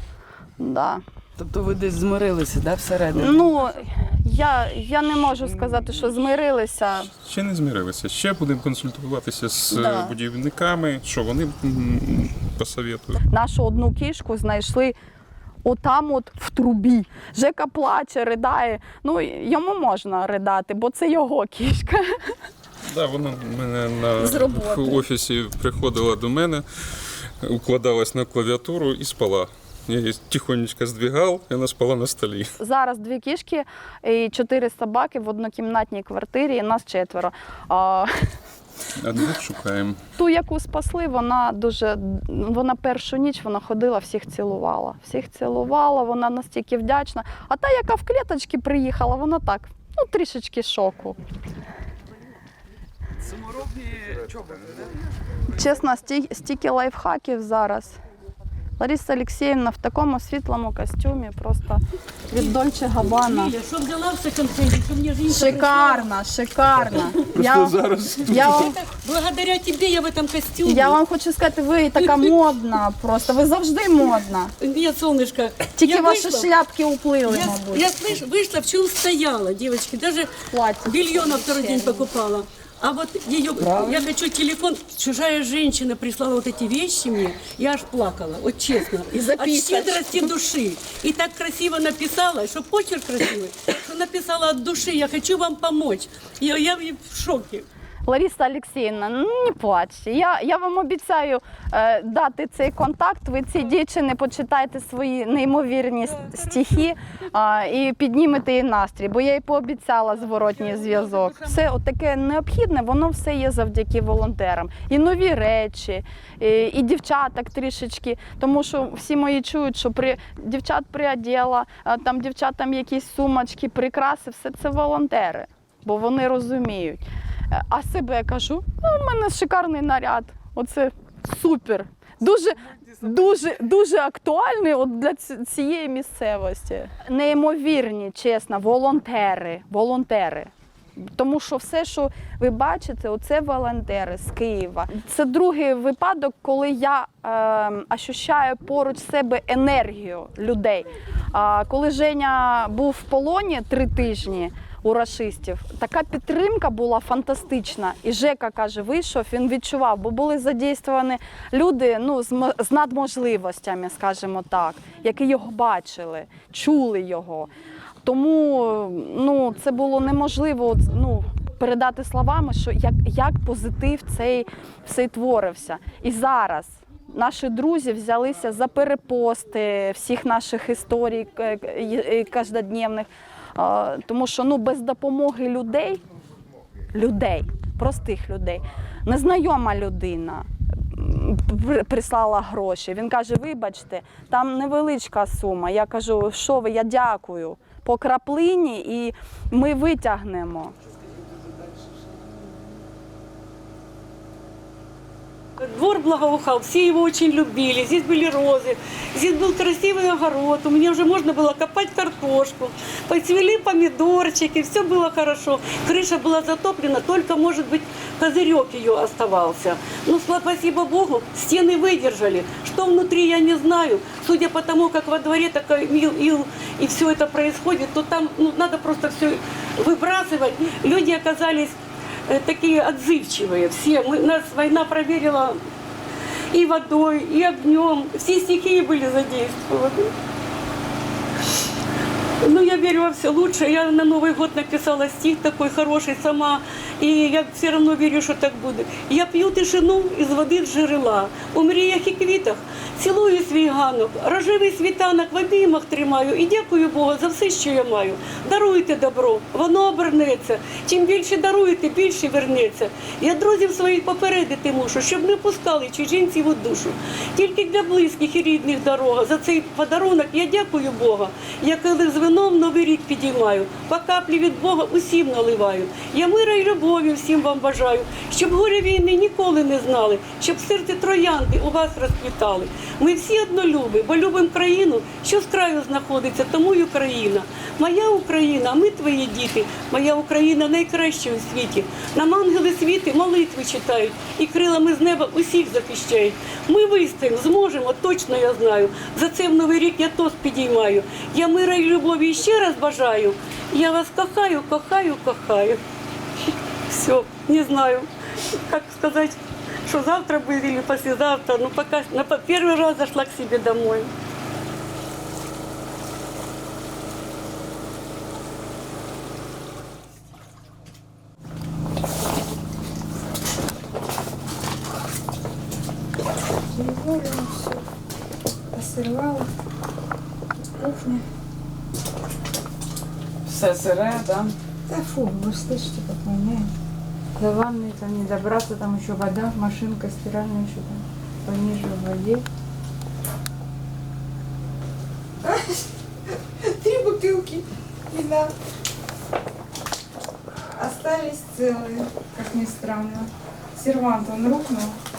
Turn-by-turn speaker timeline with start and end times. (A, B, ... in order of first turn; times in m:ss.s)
0:00.6-0:01.0 A
0:01.4-0:03.5 B
0:03.1-0:07.1 A
0:07.1-0:13.2 C
0:09.7-0:10.2 A
0:13.3-0:15.0 A
0:15.6-0:22.3 A
0:22.9-0:32.6 C
0:24.2-0:25.0 A
0:32.6-0:38.3 A
0:39.0-0:40.0 C
0:40.2-0:51.2 A
0:53.2-0:54.9 B
0:55.5-0:58.0 A
0:58.8-1:03.5 A
1:03.1-1:06.1 D
1:05.3-1:08.8 A
1:07.1-1:08.6 C
1:08.3-1:11.0 D
1:10.7-1:14.5 A
1:12.0-1:12.3 D
1:14.6-1:16.5 D
1:15.8-1:17.9 A
1:17.3-1:20.3 D
1:20.5-1:22.1 A
1:20.8-1:37.7 D
1:23.6-1:24.1 B
1:29.1-1:30.3 A
1:38.1-2:47.5 A
1:50.6-1:51.2 D
2:48.0-3:06.0 A
3:06.9-3:20.7 A
3:25.6-3:55.6 D
3:56.5-4:00.1 D
4:02.4-5:05.8 D
5:06.9-5:14.1 D
5:26.8-5:27.7 E
5:28.8-5:29.4 E
5:30.8-5:31.2 E
5:33.5-5:34.5 B
5:34.9-5:36.7 E
5:37.4-5:42.4 E
5:46.8-5:48.5 E
5:50.8-5:55.0 E
5:53.9-5:54.6 A